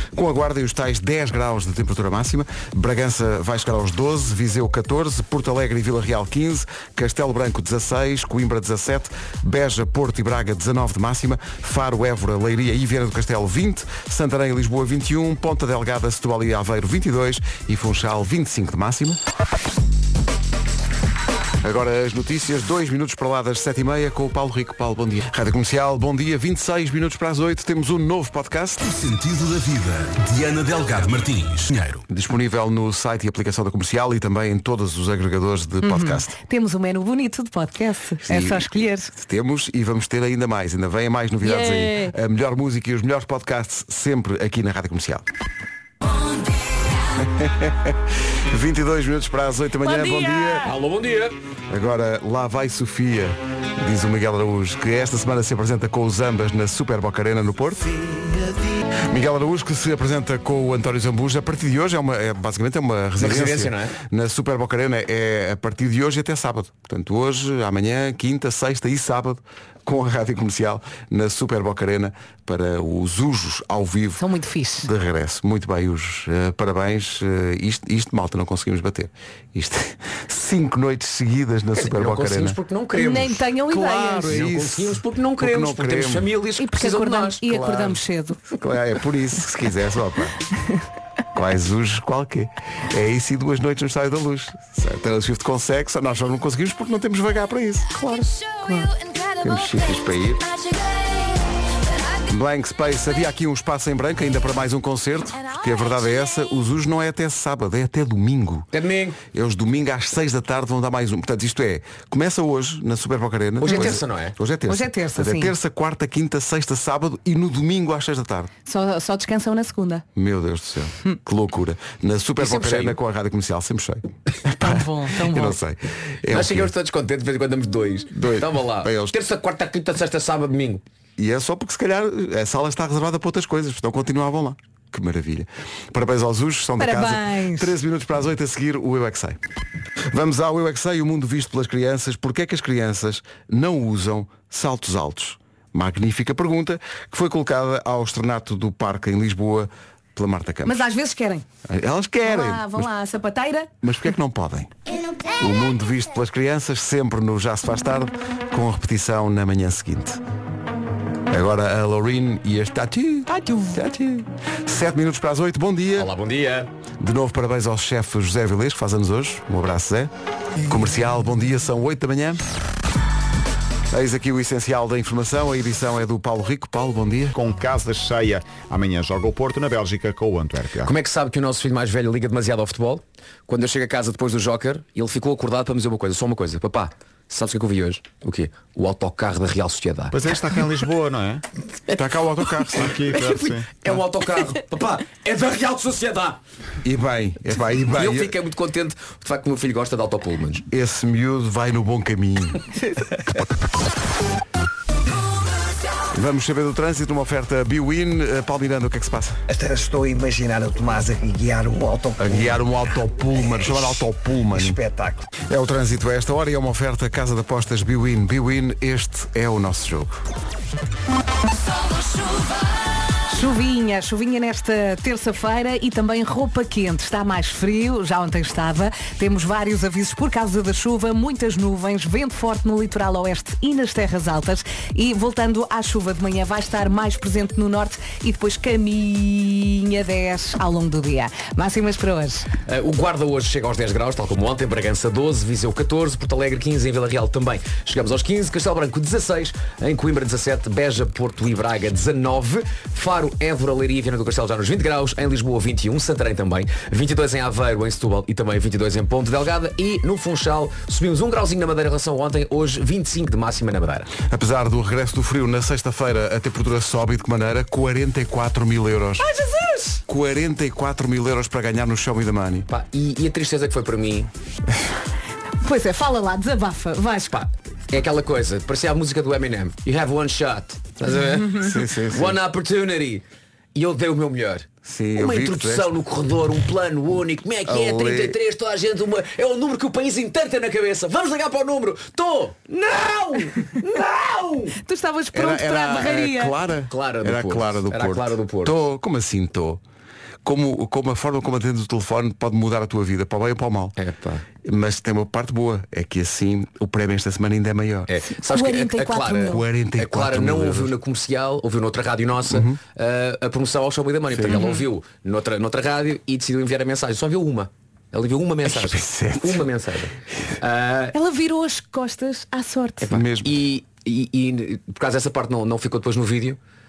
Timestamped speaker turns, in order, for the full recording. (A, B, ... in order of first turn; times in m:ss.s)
0:00.1-0:19.2 A
0:21.6-0:28.8 A
0:28.8-0:32.0 B
0:32.1-0:36.4 A
0:35.8-0:39.1 C
0:38.2-0:45.2 A
0:41.4-0:42.1 C
0:47.2-0:48.0 A
0:48.5-0:50.7 A
0:49.8-0:50.6 C
0:50.6-0:51.4 D
0:51.7-0:57.9 A
0:59.1-1:14.2 A
1:03.2-1:04.0 D
1:14.2-1:14.9 C
1:14.8-1:22.6 A
1:21.8-1:23.4 D
1:22.9-1:24.4 C
1:23.7-1:26.2 A
1:24.3-1:28.0 D
1:26.6-1:28.4 C
1:28.6-1:30.4 A
1:31.3-1:37.9 A
1:37.9-1:39.9 C
1:39.4-1:40.4 A
1:42.3-1:48.7 A
1:48.7-1:49.2 D
1:49.3-1:58.5 A
1:53.6-1:54.4 D
1:53.7-1:54.0 C
1:54.7-1:55.5 C
1:58.7-2:00.0 C
2:00.2-2:06.7 A
2:02.4-2:03.0 D
2:04.6-2:05.6 C
2:06.3-2:10.8 D
2:08.1-2:09.2 A
2:11.2-2:19.4 A
2:16.8-2:17.7 C
2:20.1-2:30.8 A
2:30.6-2:31.4 C
2:31.7-2:32.9 A
2:32.2-2:33.7 C
2:33.8-2:34.7 A
2:35.4-2:40.2 A
2:41.3-2:46.1 A
2:43.4-2:43.7 C
2:46.0-2:46.7 D
2:47.0-2:50.1 A
2:50.6-2:52.4 A
2:53.9-2:57.3 A
2:57.3-3:00.9 E
3:00.8-3:10.2 D
3:10.1-3:11.4 E
3:12.0-3:13.0 A
3:12.6-3:16.4 D
3:12.8-3:13.7 E
3:16.8-3:18.3 A
3:17.9-3:20.6 D
3:20.7-3:22.6 A
3:26.1-3:29.4 A
3:29.5-3:32.5 F
3:30.0-3:32.6 B
3:32.2-3:34.8 A
3:34.5-3:35.2 B
3:34.7-3:35.2 F
3:35.5-3:40.2 A
3:43.3-4:02.5 C
4:02.7-4:24.1 D
4:24.3-4:29.3 A
4:29.2-4:30.0 C
4:30.1-4:32.7 A
4:32.7-4:34.3 D
4:35.6-4:37.4 C
4:37.3-4:43.2 D
4:41.3-4:41.7 C
4:41.6-4:42.4 A
4:43.8-4:54.8 D
4:44.8-4:45.9 A
4:47.7-4:48.3 A
4:54.8-4:56.6 C
4:55.3-4:59.8 A
4:56.9-4:58.8 D
5:00.4-5:04.0 A
5:04.0-5:04.4 D
5:04.6-5:08.1 A
5:08.1-5:21.2 D
5:08.4-5:09.7 C
5:09.5-5:10.9 A
5:12.5-5:12.8 A
5:14.5-5:14.8 C
5:18.7-5:19.6 A
5:21.1-5:23.1 C
5:23.0-5:26.6 D
5:23.1-5:23.5 A